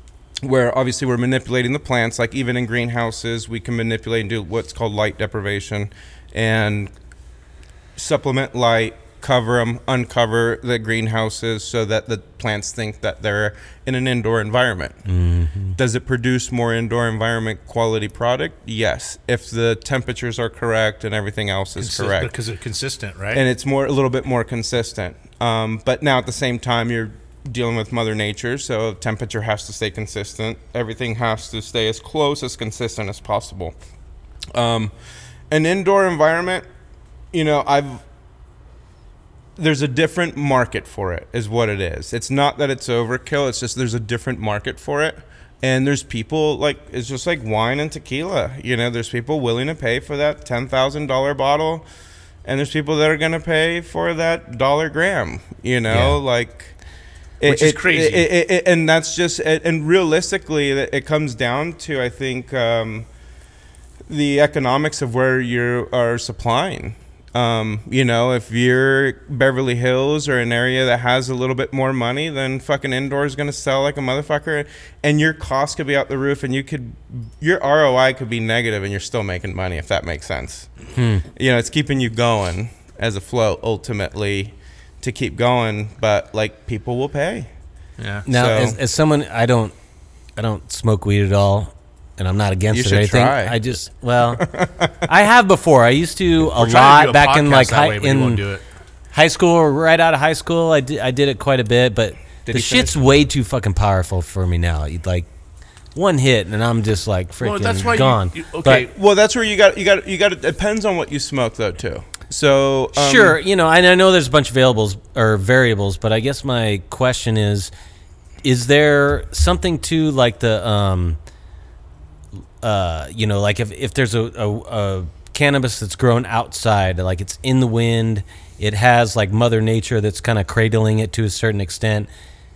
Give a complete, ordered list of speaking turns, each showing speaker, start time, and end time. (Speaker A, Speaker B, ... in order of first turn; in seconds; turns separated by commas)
Speaker A: 0.4-6.9, Speaker A: 8.0-15.0, Speaker B: 15.1-15.8, Speaker A: 15.8-22.3, Speaker C: 21.8-23.4, Speaker A: 23.3-33.8, Speaker A: 34.5-34.9, Speaker A: 35.5-36.6, Speaker A: 37.3-38.0, Speaker A: 39.6-51.9, Speaker A: 52.5-56.8, Speaker B: 55.9-56.2, Speaker A: 57.4-63.1, Speaker C: 57.4-58.3, Speaker A: 64.1-80.7, Speaker B: 81.0-81.2, Speaker A: 81.3-87.5, Speaker C: 88.0-88.3, Speaker A: 88.3-88.8, Speaker B: 88.3-89.8, Speaker B: 90.4-94.5, Speaker A: 92.7-93.6, Speaker A: 94.2-95.1, Speaker B: 95.0-98.4, Speaker C: 96.5-98.6, Speaker B: 99.1-105.3, Speaker A: 102.5-103.2, Speaker B: 106.0-108.9, Speaker C: 107.4-108.9, Speaker A: 108.9-113.4, Speaker B: 113.0-117.7, Speaker B: 118.4-121.2, Speaker B: 122.6-132.1